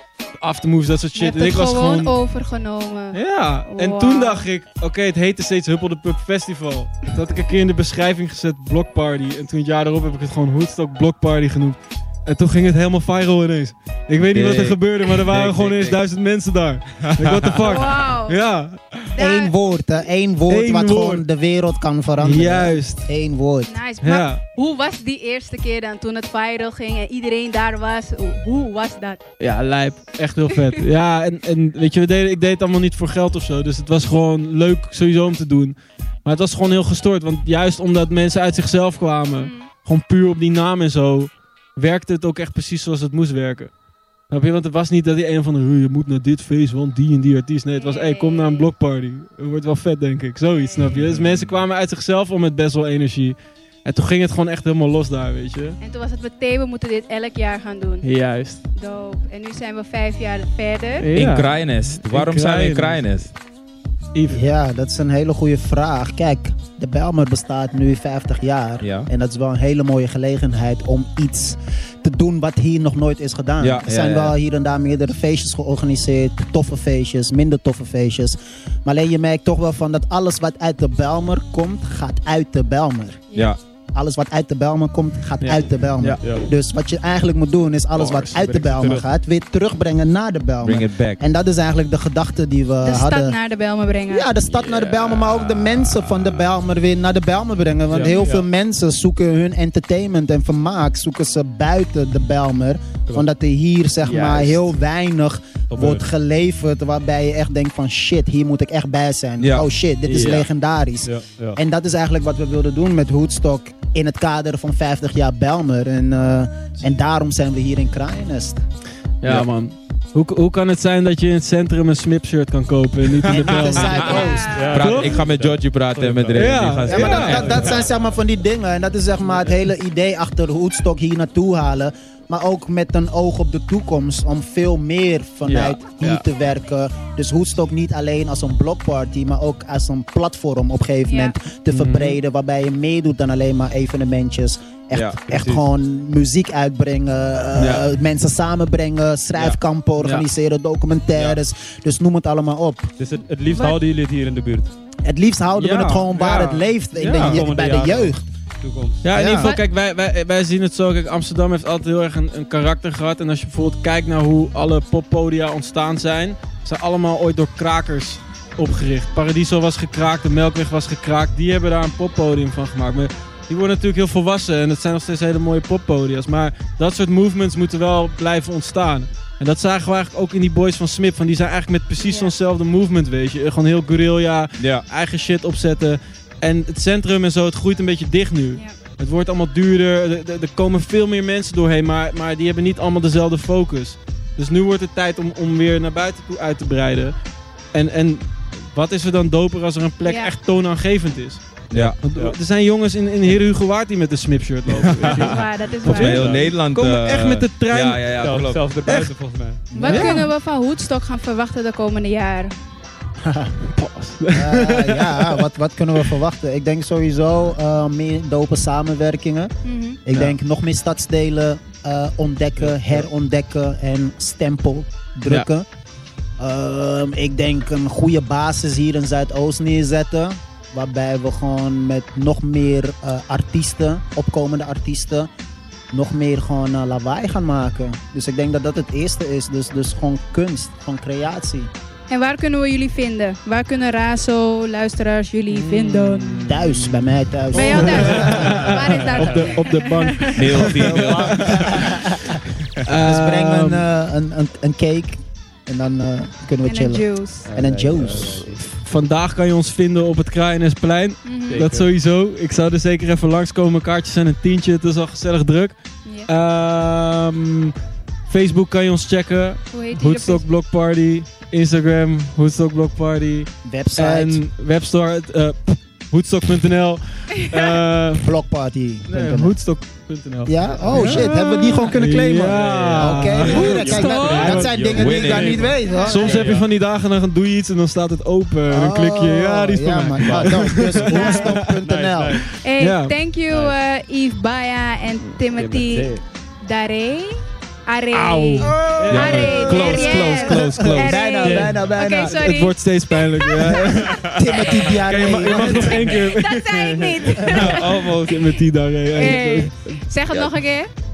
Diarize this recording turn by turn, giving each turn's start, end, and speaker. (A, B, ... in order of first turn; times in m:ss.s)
0:00.4-0:02.2 A
0:01.2-0:04.5 B
0:03.1-0:19.0 A
0:14.2-0:16.0 C
0:17.2-0:17.6 C
0:17.6-0:18.4 B
0:19.1-0:19.6 B
0:19.2-0:23.8 D
0:20.5-0:21.3 A
0:22.2-0:23.1 A
0:23.6-0:29.2 B
0:24.0-0:24.4 A
0:29.4-0:43.7 A
0:39.4-0:39.7 B
0:44.3-0:55.8 A
0:47.8-0:48.7 B
0:50.6-0:51.0 B
0:55.8-0:58.1 B
0:58.0-0:58.6 A
0:58.7-1:01.1 B
1:01.0-1:03.1 A
1:01.1-1:03.3 C
1:04.1-1:04.5 A
1:04.3-1:23.2 D
1:08.8-1:09.1 C
1:13.6-1:14.4 C
1:23.3-1:23.6 C
1:23.9-1:33.4 D
1:25.4-1:26.3 A
1:26.2-1:26.5 E
1:28.0-1:29.1 E
1:28.0-1:28.4 A
1:30.6-1:31.2 C
1:32.8-1:34.3 B
1:34.1-1:58.6 D
1:34.5-1:36.4 E
1:37.9-1:38.5 E
1:44.0-1:44.7 E
1:45.7-1:46.1 E
1:49.4-1:49.7 C
1:50.0-1:50.5 E
1:51.0-1:51.6 E
1:59.2-2:05.2 A
2:03.3-2:04.6 D
2:03.8-2:04.8 B
2:04.0-2:07.6 C
2:04.4-2:07.9 E
2:06.3-2:07.5 A
2:06.9-2:32.9 D
2:15.4-2:16.2 E
2:21.0-2:21.4 B
2:21.7-2:22.2 A
2:25.3-2:25.6 E
2:27.6-2:27.9 E
2:30.0-2:30.3 A
2:31.1-2:31.4 E
2:33.0-2:34.7 E
2:33.5-2:33.8 B
2:35.0-2:38.2 D
2:35.5-2:39.1 E
2:37.0-2:37.4 A
2:39.0-3:17.1 A
2:39.1-2:39.5 D
2:39.4-2:39.7 B
3:02.0-3:02.3 B
3:04.6-3:04.8 C
3:17.7-3:28.1 A
3:20.0-3:20.3 B
3:21.7-3:22.0 C
3:21.7-3:22.4 E
3:25.0-3:26.2 B
3:25.1-3:26.5 E
3:25.8-3:28.7 C
3:28.2-3:29.7 E
3:28.8-3:29.2 A
3:29.7-3:30.3 D
3:29.7-3:32.5 B
3:29.8-3:30.3 A
3:33.2-3:33.5 D
3:33.7-3:36.1 A
3:34.3-3:39.5 D
3:39.6-3:40.0 B
3:40.1-3:45.7 D
3:40.1-3:40.4 A
3:42.7-3:43.0 A
3:46.4-3:55.3 D
3:55.9-4:01.7 D
4:02.1-4:06.5 B
4:05.5-4:11.7 A
4:06.4-4:08.7 D
4:07.5-4:10.6 B
4:10.4-4:11.6 C
4:10.6-4:12.4 D
4:10.8-4:11.9 E
4:12.8-4:13.9 A
4:13.0-4:18.6 D
4:16.6-4:17.5 B
4:17.4-4:18.6 E
4:18.6-4:27.7 A
4:21.2-4:21.7 B
4:21.5-4:21.9 E
4:26.0-4:26.3 B
4:28.3-4:38.3 A
4:29.7-4:30.5 B
4:33.6-4:34.4 D
4:38.2-4:39.6 D
4:39.1-4:41.3 A
4:40.5-4:46.4 D
4:41.0-4:41.9 B
4:41.9-4:44.8 A
4:42.5-4:46.7 E
4:43.4-4:44.6 B
4:44.9-4:45.6 C
4:45.8-4:46.2 B
4:46.0-4:51.8 A
4:48.7-4:52.4 D
4:50.2-4:52.5 E
4:51.1-4:51.5 B
4:52.6-5:04.8 B
4:52.8-4:53.2 A
4:53.5-4:53.8 E
4:55.5-4:56.2 E
4:58.1-4:59.9 E
4:58.5-4:59.0 A
4:58.6-5:02.4 D
4:59.1-5:01.2 C
5:01.4-5:10.0 A
5:01.4-5:01.8 E
5:03.6-5:06.2 D
5:05.2-5:05.7 E
5:05.7-5:08.0 B
5:07.3-5:07.6 D
5:07.5-5:08.4 C
5:09.2-5:10.9 B